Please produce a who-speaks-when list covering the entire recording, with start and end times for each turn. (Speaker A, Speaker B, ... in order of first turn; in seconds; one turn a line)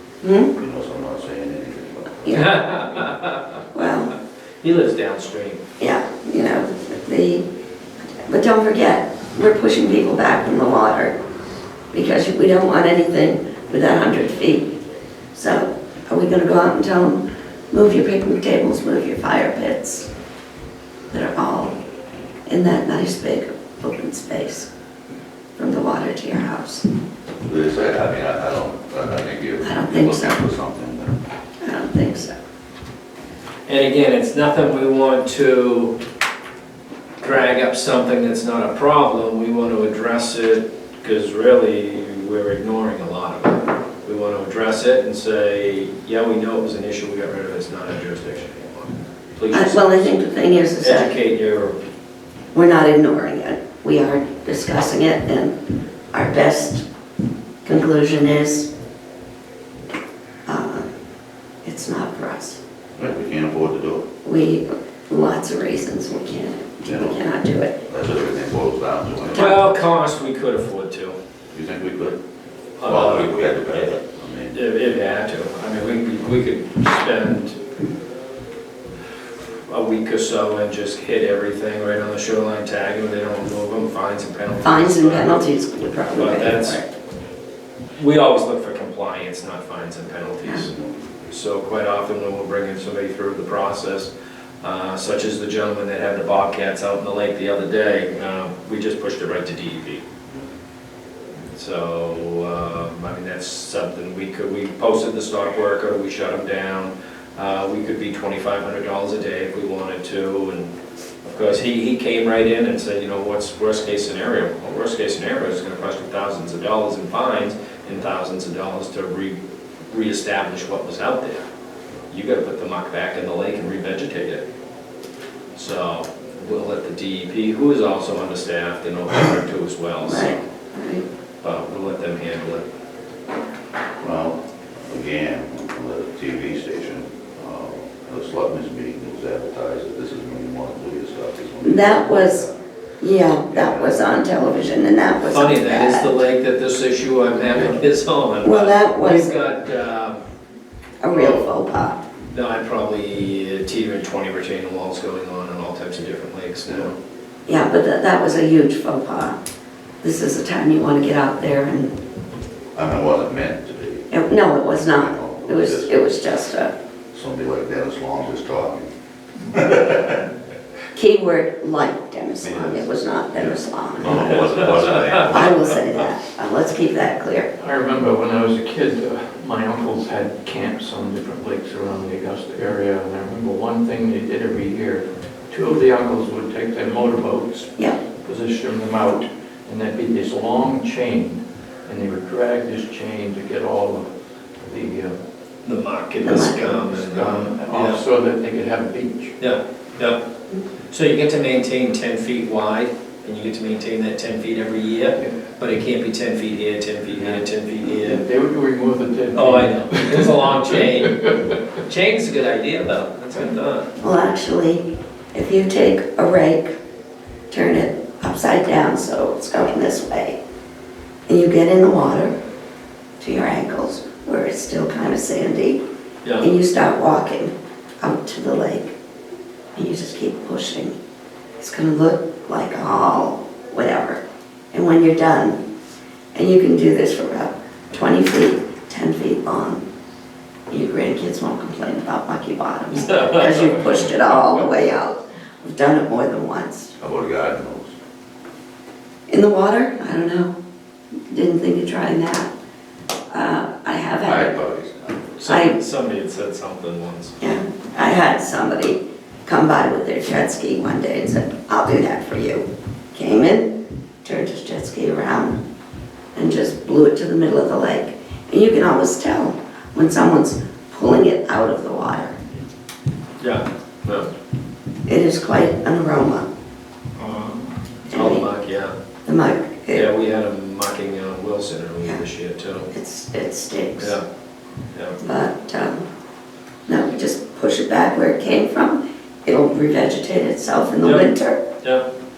Speaker A: 0.2-0.5
Speaker B: 0.5-2.8
Speaker A: 2.2-2.7
Speaker C: 2.3-3.6
Speaker A: 3.7-4.1
Speaker C: 4.6-5.6
Speaker A: 5.8-7.4
Speaker A: 8.2-11.1
Speaker A: 11.9-14.7
Speaker A: 15.3-20.1
Speaker A: 21.1-21.8
Speaker A: 22.5-24.7
Speaker A: 25.6-26.8
Speaker B: 27.4-31.2
Speaker A: 29.6-30.4
Speaker A: 31.6-32.3
Speaker C: 33.7-35.9
Speaker C: 37.2-50.0
Speaker A: 49.5-51.1
Speaker C: 50.8-51.8
Speaker A: 52.5-55.5
Speaker A: 56.1-56.8
Speaker A: 57.6-58.7
Speaker A: 60.5-60.9
Speaker A: 61.6-62.6
Speaker B: 63.0-64.0
Speaker A: 64.2-67.8
Speaker B: 66.8-67.2
Speaker B: 67.8-69.5
Speaker A: 69.3-69.7
Speaker C: 69.3-71.1
Speaker B: 71.5-72.2
Speaker C: 72.8-73.4
Speaker B: 72.8-74.6
Speaker C: 74.5-77.6
Speaker C: 79.7-85.3
Speaker A: 84.6-86.8
Speaker C: 86.1-86.8
Speaker C: 88.0-90.7
Speaker B: 90.8-91.1
Speaker C: 91.3-94.1
Speaker C: 94.6-100.0
Speaker C: 101.5-110.7
Speaker C: 111.2-119.4
Speaker C: 119.9-121.4
Speaker C: 122.1-124.4
Speaker C: 125.5-130.4
Speaker A: 130.0-131.0
Speaker C: 131.4-132.6
Speaker B: 134.0-142.5
Speaker A: 141.6-142.4
Speaker A: 143.0-146.2
Speaker B: 143.5-144.1
Speaker C: 145.3-150.2
Speaker B: 147.5-147.8
Speaker A: 148.4-149.3
Speaker A: 151.0-152.0
Speaker C: 151.1-151.5
Speaker C: 152.3-156.9
Speaker A: 157.5-159.3
Speaker A: 160.0-162.0
Speaker B: 162.7-164.2
Speaker A: 164.1-166.7
Speaker B: 164.9-165.9
Speaker B: 167.1-168.9
Speaker B: 169.4-170.3
Speaker A: 170.9-177.5
Speaker B: 172.4-176.1
Speaker D: 177.6-194.1
Speaker D: 194.7-195.1
Speaker C: 195.6-198.0
Speaker A: 196.2-196.8
Speaker D: 196.8-199.3
Speaker C: 199.4-200.2
Speaker C: 200.9-208.2
Speaker D: 208.0-211.5
Speaker C: 209.3-213.9
Speaker A: 214.0-216.7
Speaker A: 217.5-220.4
Speaker A: 221.3-222.3
Speaker A: 223.2-225.8
Speaker A: 226.4-228.9
Speaker A: 229.7-230.9
Speaker A: 231.6-234.2
Speaker A: 234.7-235.6
Speaker A: 236.3-239.8
Speaker A: 240.7-246.9
Speaker C: 242.9-243.8
Speaker B: 247.0-247.9
Speaker A: 249.3-250.5
Speaker A: 251.3-252.5
Speaker A: 253.3-254.5
Speaker B: 254.2-255.3
Speaker C: 255.4-257.3
Speaker A: 255.4-255.8
Speaker A: 257.4-263.7
Speaker A: 264.2-265.6
Speaker A: 266.3-272.4
Speaker C: 273.4-274.3
Speaker A: 275.1-276.5
Speaker C: 277.2-277.5
Speaker A: 278.1-278.5
Speaker C: 278.1-278.9
Speaker A: 279.2-280.1
Speaker C: 279.9-282.9
Speaker A: 282.9-284.2
Speaker A: 285.2-286.1
Speaker A: 286.9-291.6
Speaker C: 291.0-291.3